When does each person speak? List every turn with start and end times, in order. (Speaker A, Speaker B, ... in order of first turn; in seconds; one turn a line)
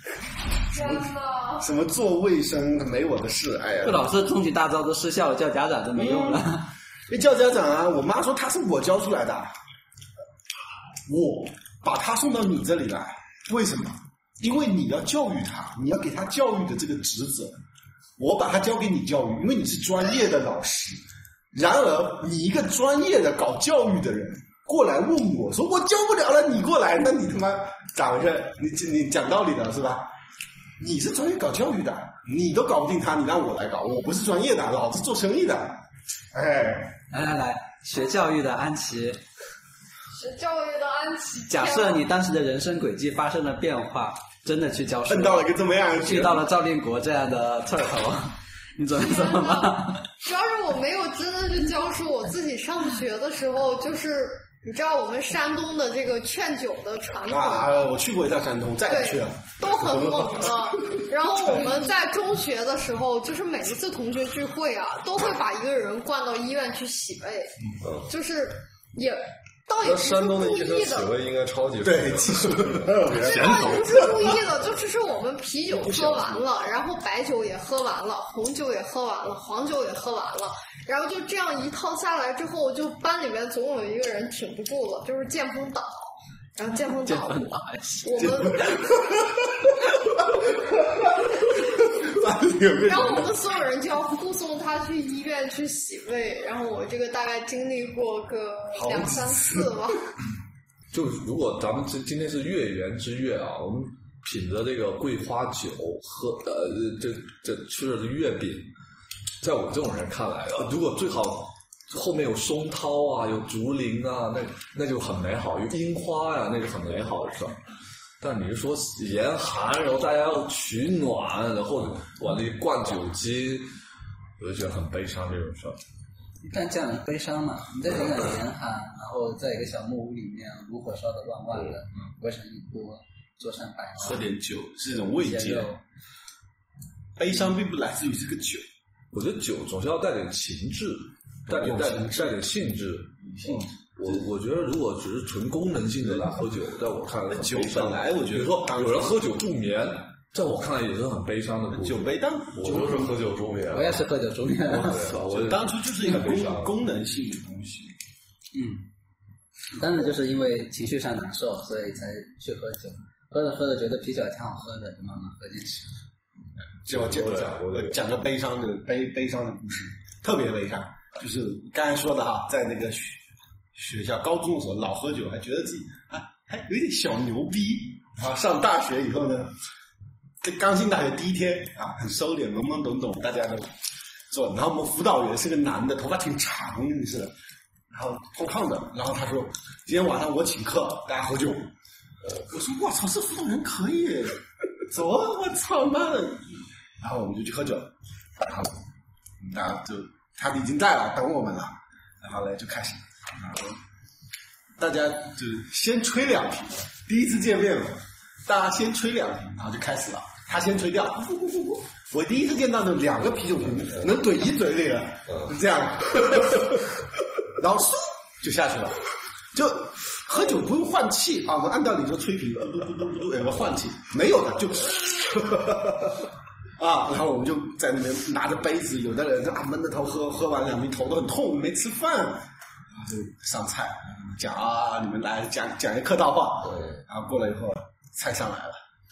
Speaker A: 0.7-1.6
Speaker B: 0.7-1.1
Speaker B: 1.6-4.0
Speaker C: 3.8-6.7
Speaker B: 6.0-6.4
Speaker B: 7.1-9.5
Speaker B: 11.1-17.6
Speaker B: 18.2-21.0
Speaker B: 21.5-30.1
Speaker B: 30.8-35.8
Speaker B: 36.3-36.9
Speaker C: 37.1-39.2
Speaker A: 40.1-42.1
Speaker C: 41.5-50.1
Speaker B: 45.1-46.4
Speaker A: 49.0-57.9
Speaker B: 57.3-61.0
Speaker A: 58.9-71.1
Speaker D: 69.8-73.0
Speaker B: 71.8-74.0
Speaker A: 73.1-87.5
Speaker E: 73.1-74.2
Speaker C: 87.0-88.4
Speaker A: 88.0-88.9
Speaker B: 88.2-89.5
Speaker B: 91.8-93.3
Speaker A: 92.8-100.1
Speaker B: 98.7-99.7
Speaker E: 100.9-108.7
Speaker E: 109.4-117.6
Speaker E: 118.2-123.7
Speaker E: 124.4-125.8
Speaker C: 126.4-134.2
Speaker B: 134.0-135.7
Speaker C: 135.0-135.8
Speaker B: 137.2-138.6
Speaker E: 139.1-152.1
Speaker B: 141.5-142.4
Speaker B: 143.2-144.2
Speaker B: 147.3-149.2
Speaker B: 151.7-153.1
Speaker D: 152.5-154.1
Speaker C: 153.7-155.1
Speaker D: 154.7-155.5
Speaker E: 154.8-156.7
Speaker B: 155.0-157.9
Speaker C: 158.5-158.8
Speaker C: 159.7-165.9
Speaker B: 166.8-173.2
Speaker D: 166.9-167.9
Speaker B: 173.7-179.5
Speaker B: 180.4-183.7
Speaker B: 184.3-187.3
Speaker B: 187.9-191.7
Speaker B: 192.4-198.8
Speaker B: 199.4-203.8
Speaker B: 204.8-216.8
Speaker B: 217.6-226.2
Speaker B: 226.8-238.8